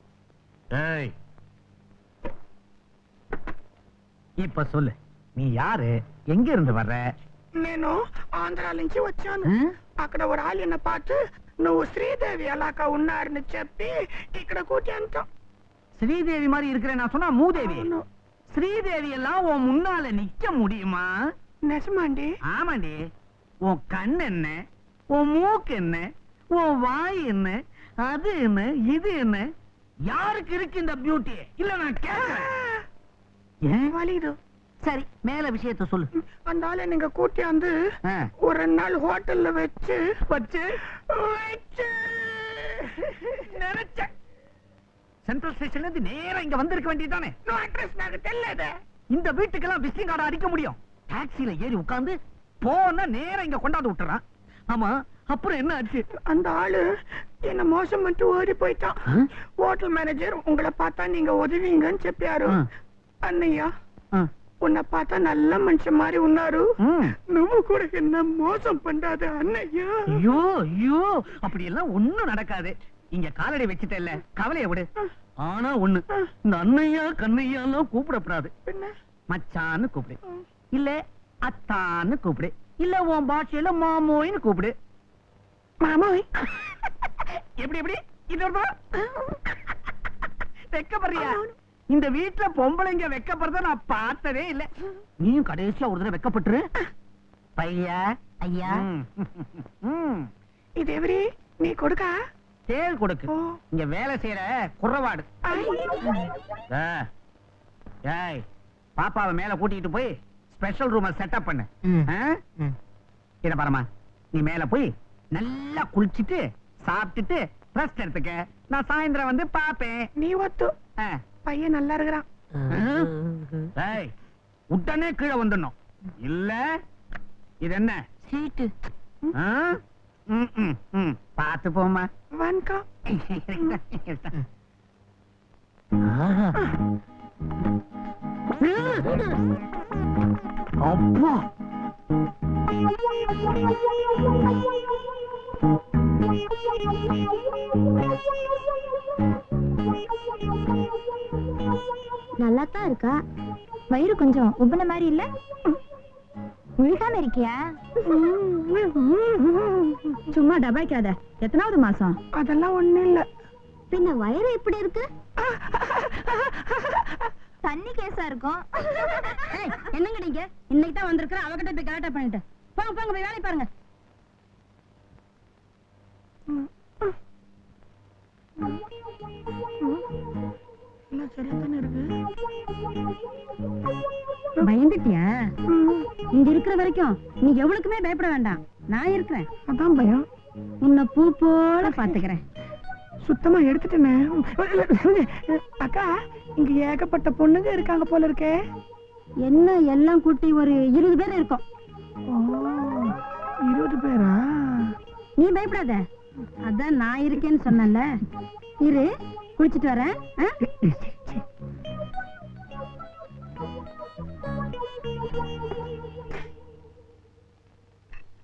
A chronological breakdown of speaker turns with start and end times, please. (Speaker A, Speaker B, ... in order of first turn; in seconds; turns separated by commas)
Speaker A: 0.7-1.1, Speaker A: 4.4-7.0, Speaker B: 7.5-15.3, Speaker A: 16.0-17.9, Speaker B: 17.5-18.0, Speaker A: 18.5-21.1, Speaker B: 21.7-22.3, Speaker A: 22.5-23.0, Speaker A: 23.7-24.6, Speaker A: 25.1-29.4, Speaker A: 30.1-32.5, Speaker B: 32.1-32.8, Speaker A: 33.7-33.9, Speaker B: 33.9-34.4, Speaker A: 34.8-36.1, Speaker B: 36.5-37.7, Speaker B: 38.5-40.0, Speaker A: 40.3-40.7, Speaker B: 41.1-43.1, Speaker B: 43.6-44.0, Speaker A: 45.2-47.3, Speaker B: 47.5-48.7, Speaker A: 49.1-56.0, Speaker B: 56.2-56.8, Speaker B: 57.4-58.9, Speaker B: 59.6-62.6, Speaker B: 63.2-63.7, Speaker B: 64.6-66.6, Speaker A: 66.8-67.1, Speaker B: 67.3-70.2, Speaker A: 70.1-74.9, Speaker A: 75.4-78.5, Speaker B: 78.7-78.9, Speaker A: 79.3-80.2, Speaker A: 80.7-84.7, Speaker B: 85.8-86.2, Speaker A: 87.6-88.7, Speaker A: 90.7-94.7, Speaker A: 95.2-96.6, Speaker A: 97.6-98.0, Speaker A: 98.6-100.3, Speaker B: 100.8-102.2, Speaker A: 102.7-105.2, Speaker B: 105.4-106.0, Speaker A: 106.7-107.0, Speaker A: 108.1-108.4, Speaker A: 109.0-112.4, Speaker A: 113.4-120.0, Speaker B: 120.2-120.7, Speaker B: 121.5-122.2, Speaker A: 122.7-123.1, Speaker A: 123.8-124.1, Speaker A: 124.7-126.6, Speaker A: 127.6-128.0, Speaker A: 129.3-129.8, Speaker A: 130.3-132.1, Speaker B: 132.3-132.8, Speaker A: 133.1-134.3, Speaker C: 152.4-153.2, Speaker C: 153.9-155.3, Speaker C: 156.8-157.7, Speaker B: 158.1-160.1, Speaker C: 160.3-162.2, Speaker B: 162.3-163.2, Speaker C: 163.9-165.1, Speaker B: 165.4-166.5, Speaker C: 167.6-169.8, Speaker D: 169.5-173.7, Speaker B: 181.1-182.1, Speaker D: 184.6-185.3, Speaker B: 185.7-186.1, Speaker D: 186.3-189.5, Speaker B: 189.7-190.3, Speaker D: 190.8-192.4, Speaker B: 191.8-192.2, Speaker B: 193.2-198.6, Speaker D: 199.4-201.6, Speaker B: 202.3-203.1, Speaker B: 203.7-204.9, Speaker D: 205.4-206.0, Speaker D: 206.7-208.1, Speaker D: 208.8-209.1, Speaker D: 209.6-210.6, Speaker B: 210.8-211.4